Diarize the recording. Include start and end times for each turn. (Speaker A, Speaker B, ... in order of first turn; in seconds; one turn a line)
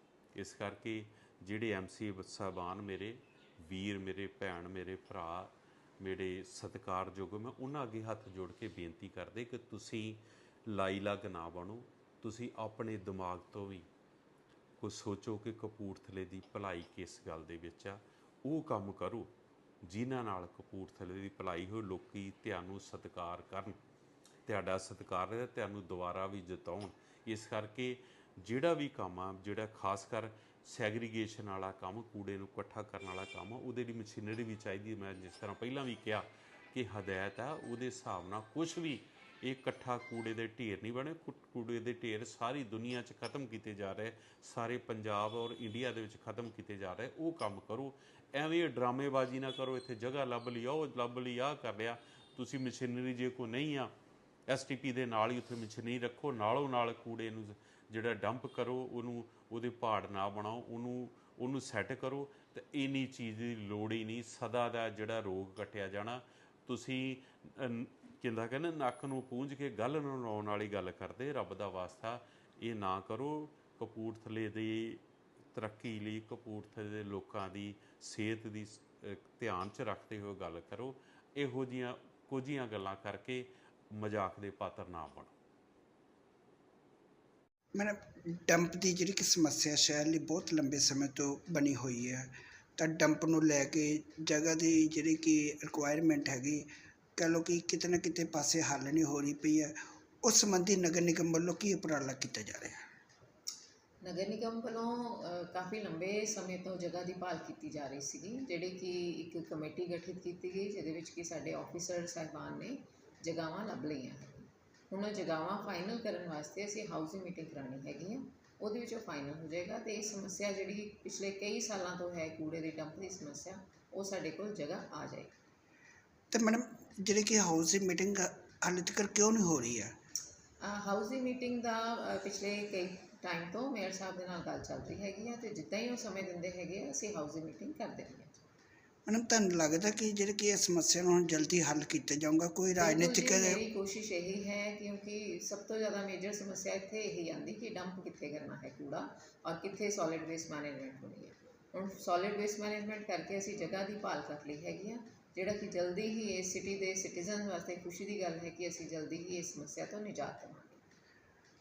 Speaker A: 0.3-13.9
Speaker A: 14.8-19.3
Speaker A: 19.8-23.8
Speaker A: 24.4-53.9
Speaker A: 54.5-75.0
Speaker A: 75.5-85.3
Speaker B: 87.7-102.8
Speaker C: 104.0-125.3
Speaker B: 126.3-129.9
Speaker C: 130.6-138.4
Speaker B: 139.1-143.6
Speaker C: 142.8-160.8